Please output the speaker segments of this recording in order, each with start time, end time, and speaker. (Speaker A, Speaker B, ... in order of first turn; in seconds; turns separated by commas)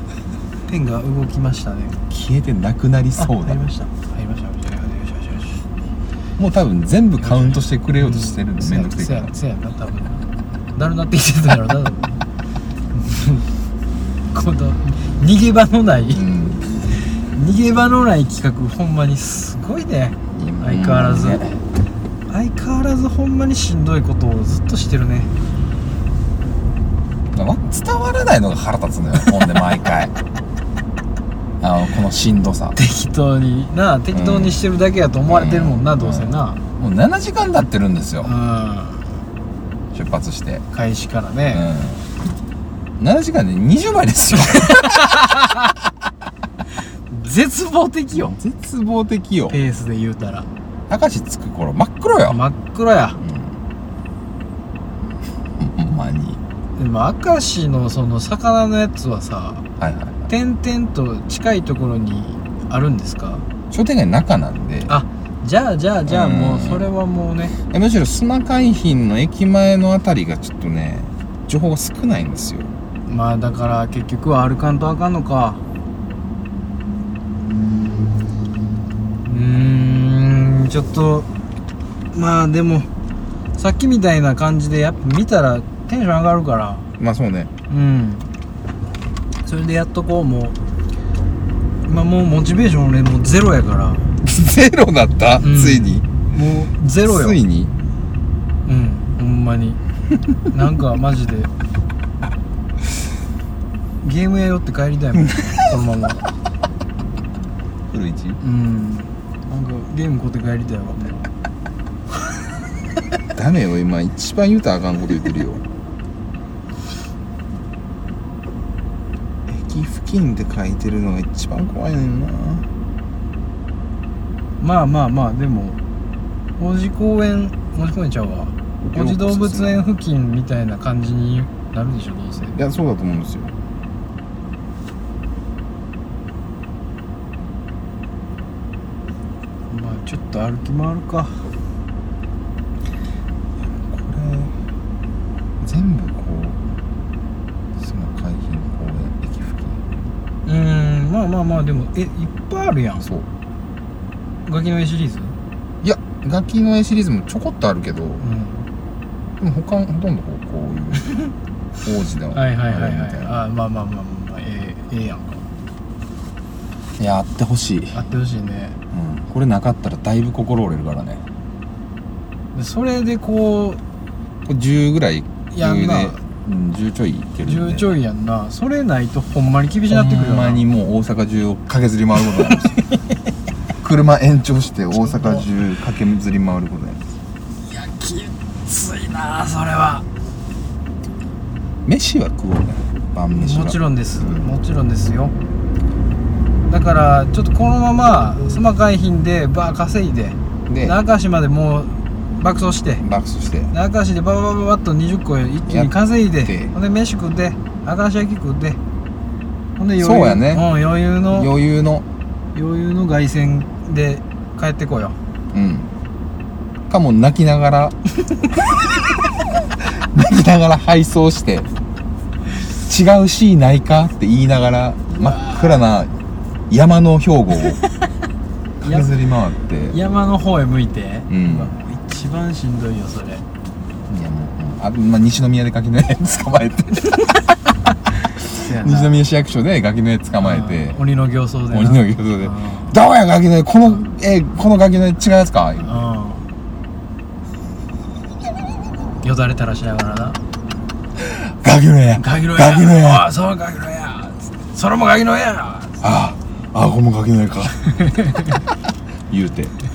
Speaker A: 0.7-2.0, Speaker B: 2.1-3.6, Speaker A: 3.1-5.6, Speaker B: 6.4-9.3, Speaker A: 7.2-12.1, Speaker A: 12.9-13.5, Speaker A: 14.3-16.2, Speaker B: 16.1-16.7, Speaker A: 17.3-21.4, Speaker B: 20.3-21.6, Speaker A: 22.3-25.3, Speaker B: 27.3-30.1, Speaker B: 31.6-32.8, Speaker A: 32.8-36.6, Speaker B: 34.1-34.6, Speaker B: 35.2-38.3, Speaker A: 38.2-39.1, Speaker B: 39.9-40.6, Speaker A: 40.7-41.7, Speaker B: 41.5-42.0, Speaker B: 43.0-45.1, Speaker A: 44.5-45.7, Speaker A: 47.1-48.4, Speaker B: 48.1-49.6, Speaker A: 49.5-50.5, Speaker B: 50.9-52.4, Speaker A: 52.3-53.2, Speaker B: 53.2-53.5, Speaker B: 55.6-56.4, Speaker A: 56.8-59.6, Speaker B: 59.8-60.3, Speaker A: 60.3-63.4, Speaker B: 63.7-64.9, Speaker A: 64.9-67.5, Speaker B: 66.0-66.9, Speaker B: 67.6-72.7, Speaker A: 73.1-75.6, Speaker A: 79.2-81.3, Speaker A: 82.1-82.9, Speaker A: 83.6-86.9, Speaker B: 87.0-87.5, Speaker A: 87.7-88.2, Speaker A: 89.4-90.6, Speaker A: 91.9-94.1, Speaker B: 94.2-96.0, Speaker A: 95.4-97.4, Speaker B: 97.0-97.7, Speaker A: 98.7-99.8, Speaker A: 100.5-101.5, Speaker A: 104.0-106.2, Speaker B: 105.2-105.5, Speaker B: 107.9-108.4, Speaker A: 108.4-111.3, Speaker B: 113.3-115.6, Speaker B: 119.5-122.7, Speaker A: 124.6-125.8, Speaker A: 126.6-132.6, Speaker B: 128.8-129.9, Speaker B: 132.5-133.5, Speaker A: 139.7-141.4, Speaker B: 143.6-144.5, Speaker B: 145.6-146.6, Speaker B: 147.8-149.8, Speaker A: 150.4-153.1, Speaker A: 154.4-155.3, Speaker B: 155.8-158.2, Speaker A: 158.2-158.7, Speaker B: 159.4-161.1, Speaker A: 161.0-161.3, Speaker B: 161.8-163.4, Speaker A: 162.3-165.4, Speaker B: 167.0-168.0, Speaker A: 167.9-168.8, Speaker B: 168.9-171.2, Speaker A: 172.5-173.8, Speaker B: 174.4-178.0, Speaker A: 175.5-176.2, Speaker A: 177.4-180.7, Speaker B: 179.9-182.8, Speaker B: 183.8-187.0, Speaker A: 185.1-185.5, Speaker A: 187.6-190.0, Speaker B: 191.8-194.5, Speaker A: 193.3-195.3, Speaker A: 196.7-203.0, Speaker B: 200.7-201.0, Speaker B: 203.0-203.7, Speaker A: 203.7-208.8, Speaker B: 206.4-206.7, Speaker A: 209.8-211.5, Speaker B: 210.0-210.7, Speaker B: 211.3-212.1, Speaker A: 212.5-215.2, Speaker B: 215.5-215.9, Speaker B: 216.9-218.0, Speaker B: 218.5-218.8, Speaker B: 219.8-221.7, Speaker B: 222.8-226.2, Speaker A: 225.1-225.8, Speaker B: 226.7-227.8, Speaker B: 228.8-229.9, Speaker A: 228.8-229.1, Speaker A: 229.9-233.4, Speaker B: 231.3-231.7, Speaker B: 234.1-237.2, Speaker A: 238.5-239.2, Speaker B: 238.6-241.0, Speaker A: 240.4-242.9, Speaker B: 241.7-246.1, Speaker A: 245.8-246.4, Speaker A: 249.2-250.4, Speaker B: 251.2-253.3, Speaker A: 252.2-256.0, Speaker B: 256.0-257.8, Speaker A: 257.9-258.6, Speaker B: 259.3-259.7